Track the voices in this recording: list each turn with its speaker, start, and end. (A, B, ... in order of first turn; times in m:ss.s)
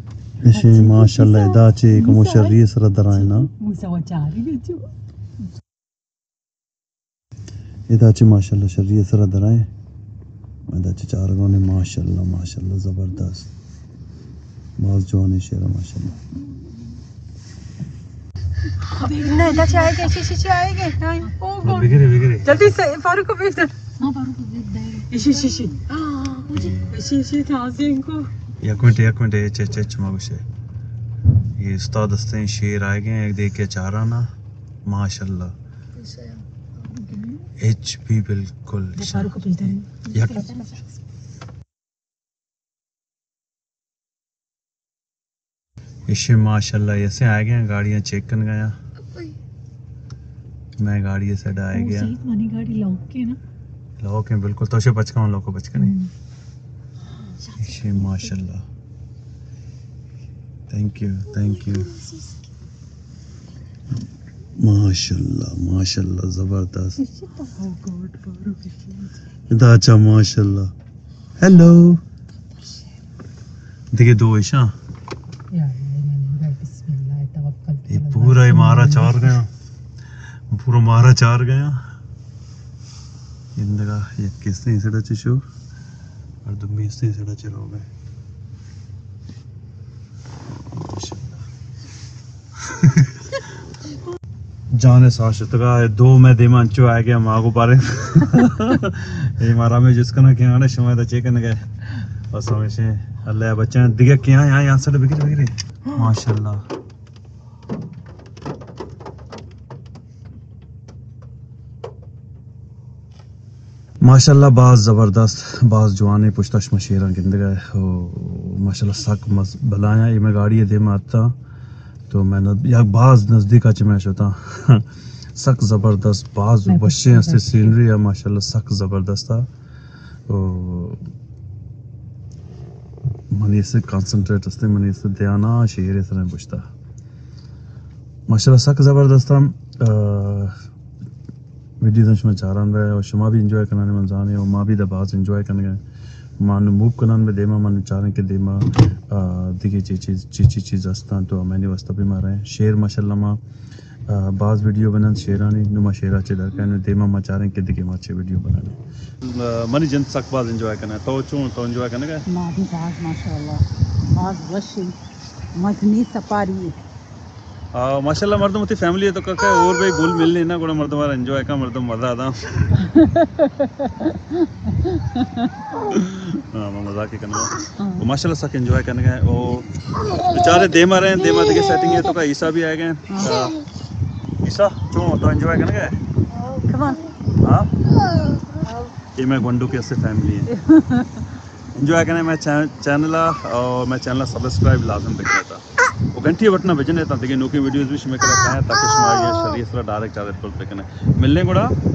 0:00.4-0:03.5 A
0:00.5-0:04.9 B
0:07.9-0:09.7 A
0:10.7-0:13.5 A
0:14.8-0:16.2 A
0:18.8-0:24.0 B
0:19.0-0:20.1 C
0:21.6-0:22.8 A
0:24.0-0:25.8 C
0:25.1-0:28.3 B
0:26.5-0:27.0 A
0:28.6-0:30.4 A
0:31.6-0:34.3 A
0:34.8-0:35.6 A
0:36.0-0:37.2 C
0:37.6-0:40.5 A
0:39.0-0:40.8 B
0:40.1-0:40.8 C
0:46.1-0:48.8 A
0:50.8-0:52.2 A
0:52.2-0:52.9 B
0:54.0-0:56.0 A
0:55.8-0:56.1 B
0:57.6-0:58.6 A
0:57.6-0:58.0 B
1:00.7-1:02.0 A
1:04.6-1:07.0 A
1:07.0-1:09.1 B
1:09.5-1:10.7 A
1:11.4-1:12.0 A
1:12.6-1:12.8 B
1:13.9-1:14.7 A
1:15.5-1:19.4 B
1:17.9-1:19.5 A
1:20.5-1:21.8 A
1:23.6-1:25.4 A
1:26.4-1:27.9 A
1:30.7-1:31.5 A
1:32.6-1:33.4 A
1:34.7-1:46.6 A
1:54.0-2:01.3 A
2:02.1-2:09.5 A
2:06.6-2:07.8 B
2:10.3-2:11.0 A
2:13.3-2:16.6 A
2:18.3-2:20.6 A
2:21.8-2:25.8 A
2:26.4-2:33.4 A
2:34.1-2:42.2 A
2:42.3-2:45.0 B
2:45.6-2:46.8 B
2:47.7-2:52.9 A
2:52.8-2:54.1 B
2:54.9-2:55.4 B
2:55.8-3:03.6 A
2:57.8-2:58.1 B
3:03.1-3:03.5 B
3:04.4-3:06.0 A
3:06.5-3:07.1 B
3:07.4-3:07.7 A
3:09.1-3:10.5 A
3:10.5-3:11.2 B
3:11.7-3:21.8 A